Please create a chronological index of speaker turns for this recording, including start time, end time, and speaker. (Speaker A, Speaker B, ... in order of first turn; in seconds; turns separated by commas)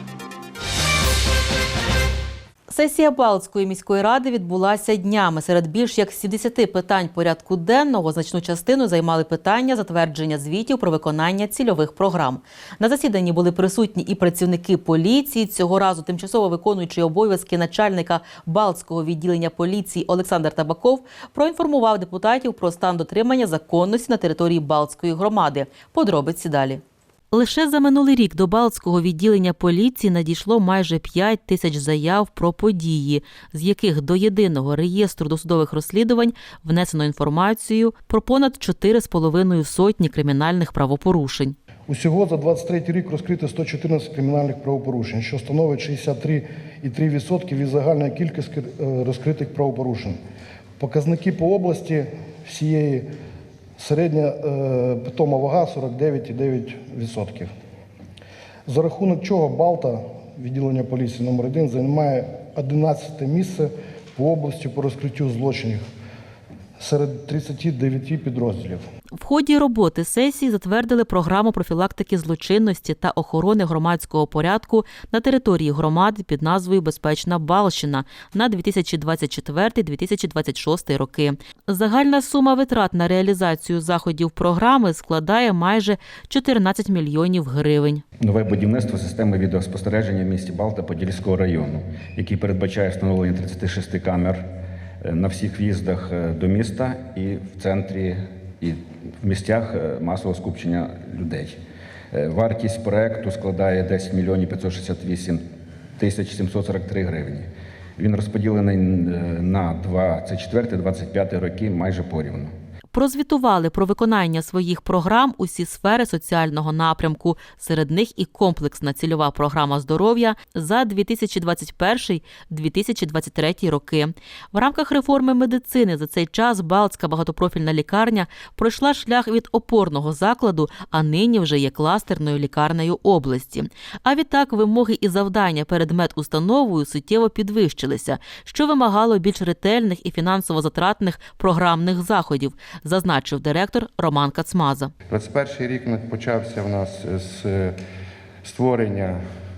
Speaker A: 2.7-26.8, Speaker A: 27.3-41.6, Speaker B: 41.9-50.2, Speaker B: 50.8-53.1, Speaker B: 53.8-57.5, Speaker B: 58.7-65.8, Speaker B: 66.8-68.8, Speaker A: 69.2-88.0, Speaker C: 88.2-94.5, Speaker C: 95.0-101.6, Speaker C: 102.1-105.4, Speaker C: 106.0-112.5, Speaker A: 112.9-144.9, Speaker D: 145.1-147.8, Speaker D: 148.4-149.2